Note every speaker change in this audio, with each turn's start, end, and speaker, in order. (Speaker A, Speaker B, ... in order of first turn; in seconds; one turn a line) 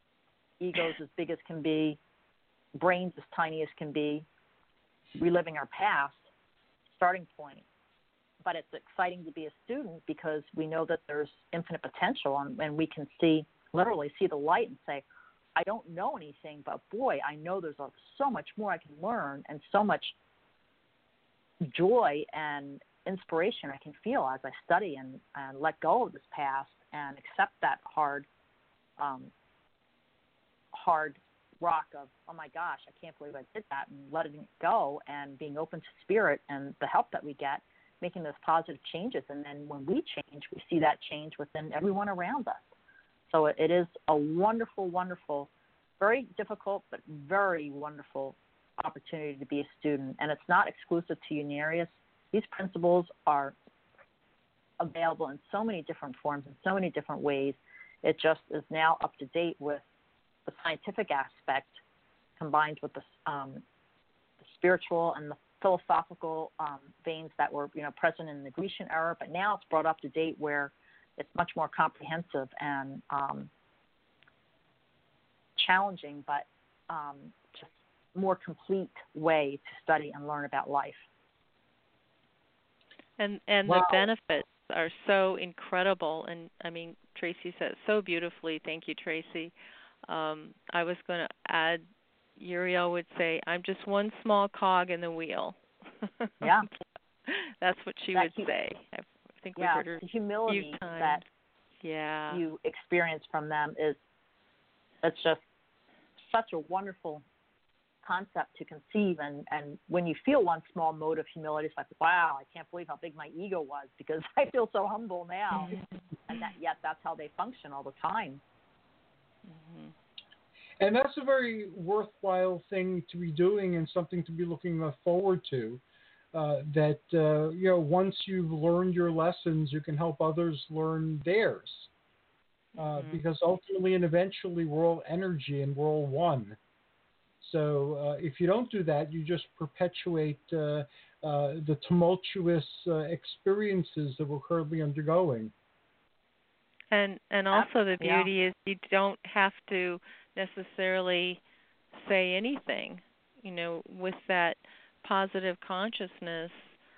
Speaker A: 0.6-2.0
Speaker A: 2.8-4.2
Speaker A: 5.1-6.2
Speaker A: 7.0-7.6
Speaker A: 8.4-20.1
Speaker A: 21.6-28.3
Speaker A: 29.0-29.3
Speaker A: 30.7-42.7
Speaker A: 43.3-53.5
Speaker A: 54.8-59.8
Speaker A: 60.5-61.8
Speaker A: 62.4-63.6
Speaker A: 64.4-73.5
Speaker A: 75.5-81.0
Speaker B: 83.2-89.5
Speaker B: 90.1-91.8
Speaker B: 92.4-96.5
Speaker A: 96.4-96.7
Speaker B: 97.3-101.2
Speaker A: 98.1-98.5
Speaker A: 99.5-101.2
Speaker B: 101.8-102.4
Speaker A: 102.3-104.0
Speaker A: 105.0-105.4
Speaker A: 106.2-107.2
Speaker A: 108.0-118.4
Speaker B: 115.5-115.8
Speaker B: 119.5-119.9
Speaker C: 120.8-125.8
Speaker C: 126.3-131.9
Speaker C: 132.8-136.6
Speaker B: 132.8-133.2
Speaker C: 137.4-145.5
Speaker B: 146.9-151.4
Speaker A: 147.5-148.3
Speaker B: 151.9-156.7